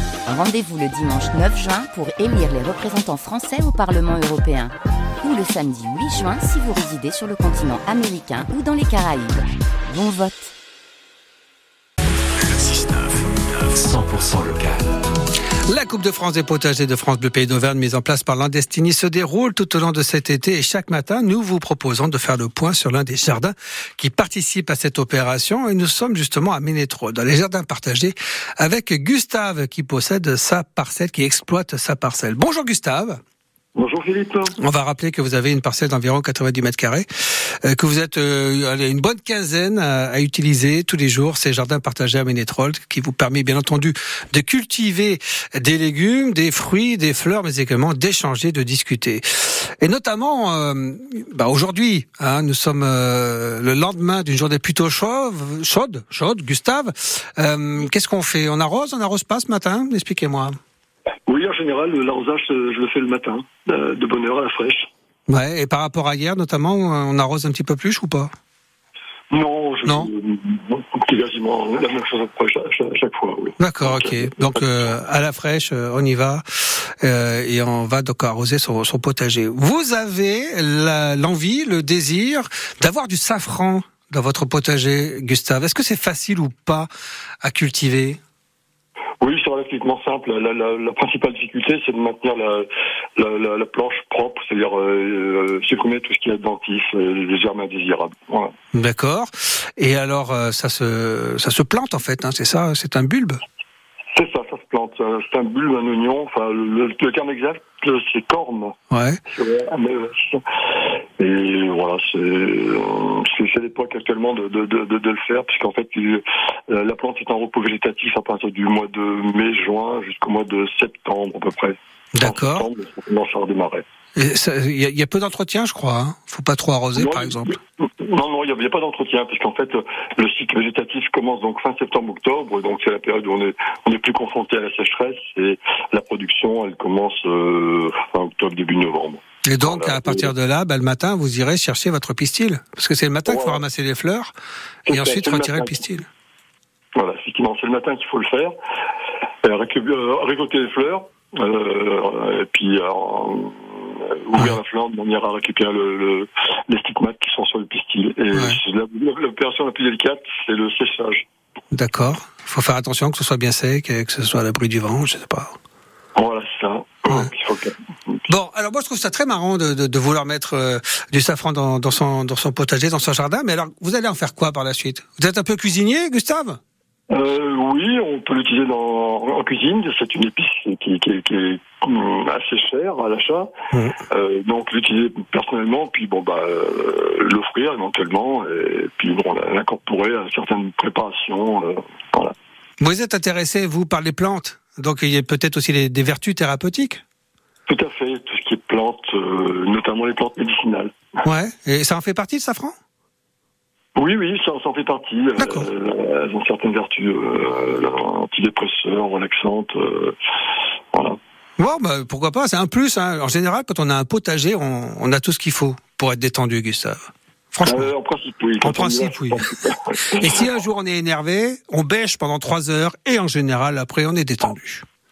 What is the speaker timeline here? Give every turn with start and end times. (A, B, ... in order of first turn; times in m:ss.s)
0:00.2-0:10.5 A
0:12.4-0:14.9 B
0:15.7-0:33.2 C
0:33.8-0:34.5 D
0:34.6-1:00.5 C
1:01.3-1:04.9 D
1:05.3-1:08.3 C
1:09.3-1:14.6 D
1:09.8-1:10.1 C
1:13.6-1:26.9 C
1:27.4-1:28.2 C
1:29.2-1:38.5 D
1:38.7-1:43.4 C
1:44.1-1:48.8 D
1:48.9-1:49.2 C
1:49.3-2:03.8 D
2:02.2-2:02.7 C
2:04.2-2:07.5 C
2:07.0-2:20.3 D
2:19.4-2:24.3 C
2:23.2-2:23.6 D
2:24.8-2:26.0 C
2:24.9-2:25.8 D
2:27.0-2:28.5 D
2:29.4-2:41.2 D
2:38.3-2:38.6 C
2:41.7-2:45.5 C
2:46.2-2:48.3 D
2:48.3-2:56.6 C
2:57.1-3:03.5 D
3:04.1-3:12.3 D
3:12.8-3:17.0 C
3:17.7-3:21.0 D
3:21.2-3:22.7 C
3:24.0-3:30.1 D
3:25.4-3:25.6 C
3:31.6-3:37.9 C
3:37.6-3:40.3 D
3:38.6-3:39.4 C
3:40.1-3:44.8 C